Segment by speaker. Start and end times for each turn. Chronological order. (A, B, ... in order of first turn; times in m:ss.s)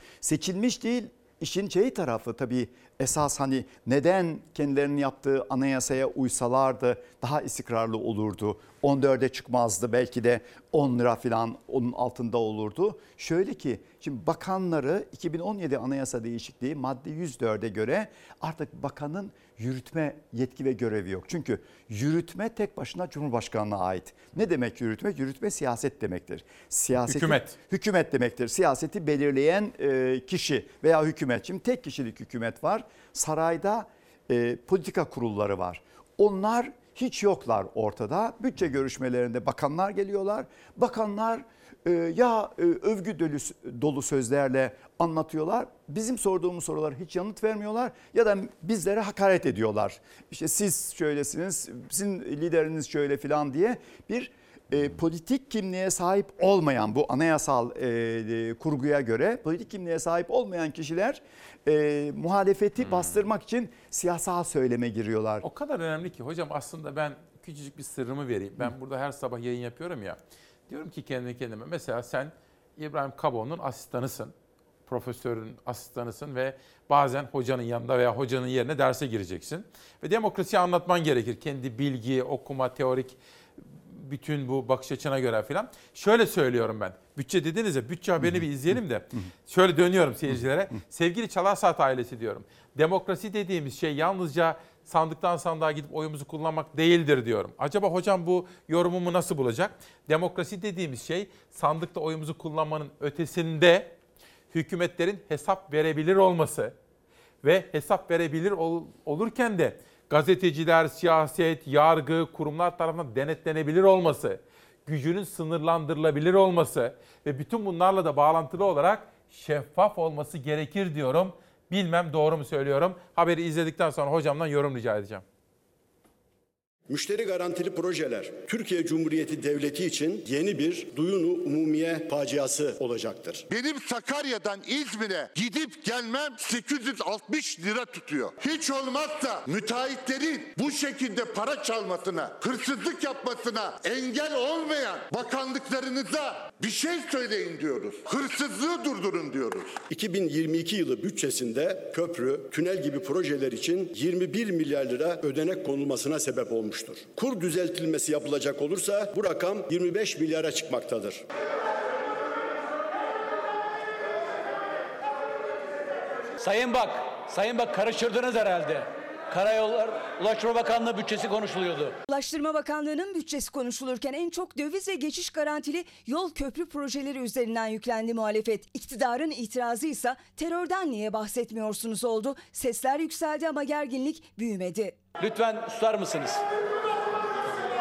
0:00.2-1:05.4 A
0:27.0-0:27.5 B
1:02.8-1:03.1 B
1:05.4-1:14.3 B
1:14.9-1:43.9 B
1:28.2-1:29.3 A
1:44.5-1:46.7 B
1:47.4-2:05.2 B
2:06.9-2:13.4 C
2:13.5-2:29.8 D
2:29.9-2:41.2 C
2:46.4-2:52.0 E
2:52.1-3:05.0 F
3:05.2-3:06.4 E